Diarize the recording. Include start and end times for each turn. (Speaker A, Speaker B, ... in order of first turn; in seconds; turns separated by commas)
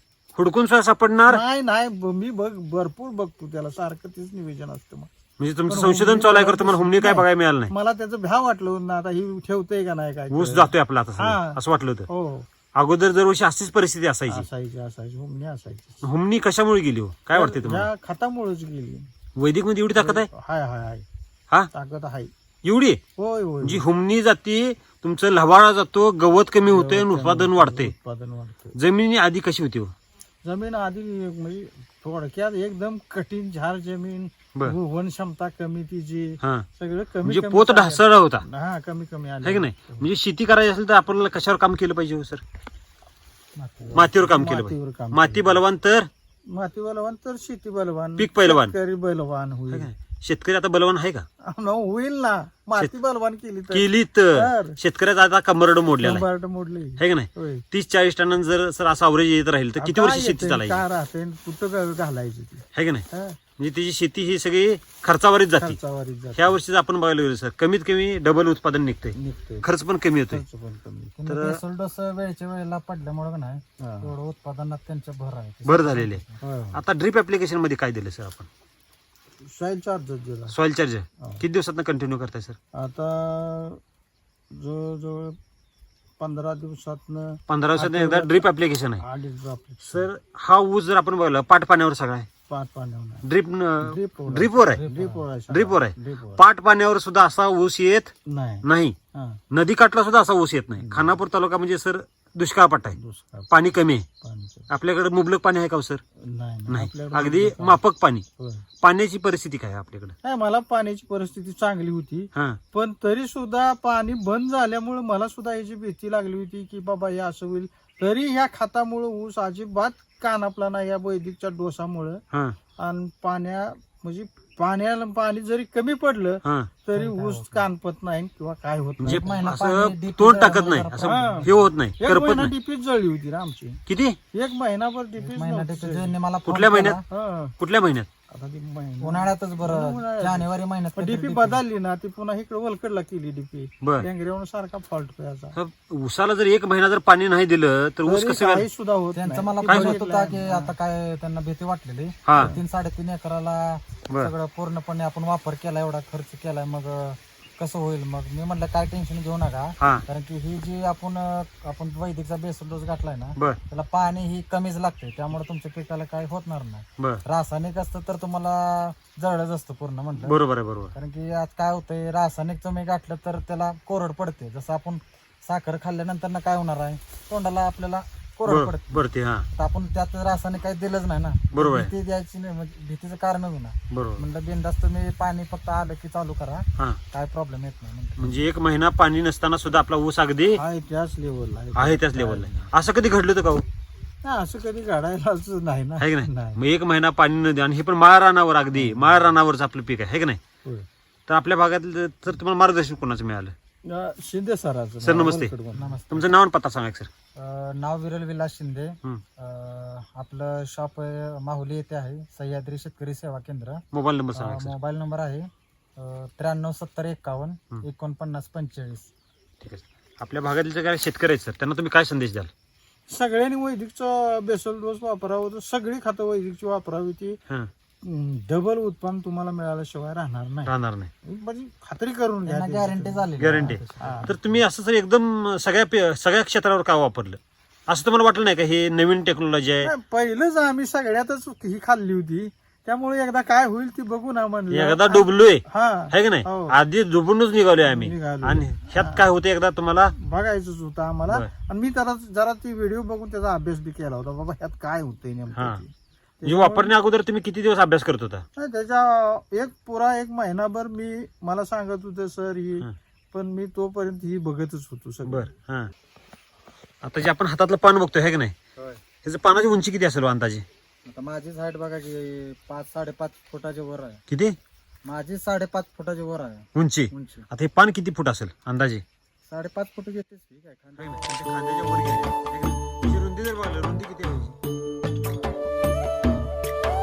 Speaker A: 0.3-1.4, Speaker B: 1.3-5.1, Speaker A: 5.4-7.7, Speaker B: 5.7-12.5, Speaker A: 10.3-12.1, Speaker A: 12.7-14.5, Speaker B: 14.3-16.0, Speaker A: 16.0-17.9, Speaker B: 17.3-19.1, Speaker A: 19.4-20.3, Speaker B: 19.9-21.0, Speaker B: 21.7-22.3, Speaker A: 22.6-23.0, Speaker B: 23.2-23.8, Speaker A: 23.6-27.9, Speaker B: 26.7-28.7, Speaker A: 28.7-29.9, Speaker B: 30.4-40.1, Speaker A: 36.4-36.7, Speaker A: 37.2-38.4, Speaker A: 39.4-42.4, Speaker B: 43.6-45.6, Speaker A: 43.9-46.1, Speaker B: 46.5-49.9, Speaker A: 48.2-48.7, Speaker A: 49.7-51.2, Speaker B: 51.4-54.8, Speaker A: 53.7-56.2, Speaker B: 56.0-57.6, Speaker A: 57.0-60.8, Speaker B: 59.8-63.4, Speaker A: 62.7-63.0, Speaker A: 63.6-65.8, Speaker B: 65.6-66.6, Speaker A: 66.3-70.4, Speaker B: 69.1-69.7, Speaker B: 70.3-71.2, Speaker C: 71.2-76.4, Speaker A: 71.2-71.6, Speaker B: 73.8-74.1, Speaker A: 75.6-78.5, Speaker B: 76.4-76.8, Speaker B: 79.5-80.5, Speaker A: 80.5-82.6, Speaker B: 82.7-83.8, Speaker B: 84.5-85.4, Speaker B: 86.2-88.4, Speaker A: 87.5-89.0, Speaker B: 89.0-90.1, Speaker A: 89.9-92.3, Speaker B: 92.5-93.3, Speaker A: 93.2-94.8, Speaker B: 93.8-96.4, Speaker C: 94.7-95.2, Speaker A: 95.5-99.0, Speaker B: 98.3-99.4, Speaker A: 99.5-103.0, Speaker B: 100.8-101.1, Speaker B: 103.0-103.5, Speaker A: 103.5-104.0, Speaker B: 104.2-104.7, Speaker A: 104.7-106.0, Speaker B: 106.2-107.8, Speaker A: 106.7-108.2, Speaker B: 108.4-108.7, Speaker A: 108.8-110.1, Speaker B: 110.2-122.2, Speaker A: 112.3-112.6, Speaker B: 122.8-129.5, Speaker A: 126.4-126.7, Speaker C: 126.9-127.7, Speaker A: 129.0-132.5, Speaker C: 129.0-131.7, Speaker B: 131.0-131.5, Speaker B: 132.0-133.8, Speaker A: 133.9-134.2, Speaker B: 134.3-136.2, Speaker C: 135.2-137.0, Speaker A: 136.4-137.0, Speaker B: 137.1-137.5, Speaker A: 137.6-138.1, Speaker B: 138.3-145.5, Speaker C: 139.0-141.6, Speaker A: 143.8-144.1, Speaker A: 145.5-148.7, Speaker B: 148.1-150.7, Speaker C: 149.1-170.4, Speaker A: 149.7-149.9, Speaker A: 152.2-152.6, Speaker A: 170.2-170.9, Speaker C: 170.9-179.0, Speaker A: 178.4-179.5, Speaker C: 179.5-188.4, Speaker A: 181.5-181.9, Speaker A: 183.9-184.2, Speaker A: 188.2-190.6, Speaker B: 190.6-192.7, Speaker A: 191.7-193.6, Speaker B: 194.2-196.6, Speaker A: 196.0-200.4, Speaker B: 198.7-199.3, Speaker A: 201.3-203.5, Speaker B: 203.8-206.0, Speaker A: 205.0-205.5, Speaker C: 205.7-206.3, Speaker A: 206.1-207.1, Speaker C: 207.3-213.8, Speaker A: 213.9-214.7, Speaker C: 214.3-219.1, Speaker A: 219.6-222.5, Speaker B: 223.1-227.4, Speaker B: 228.0-234.3, Speaker A: 230.7-231.1, Speaker C: 232.4-234.6, Speaker A: 233.4-239.9, Speaker B: 239.8-246.8, Speaker A: 244.7-250.1, Speaker B: 247.8-249.3, Speaker B: 250.2-256.9, Speaker A: 255.5-255.8, Speaker A: 256.4-258.4, Speaker B: 258.6-265.5, Speaker A: 265.2-265.9, Speaker A: 267.0-268.5, Speaker C: 268.8-269.0, Speaker A: 269.2-270.6, Speaker C: 271.1-274.2, Speaker A: 274.3-274.6, Speaker C: 275.1-277.4, Speaker A: 276.7-279.0, Speaker C: 279.4-281.4, Speaker A: 281.0-284.6, Speaker C: 285.1-286.0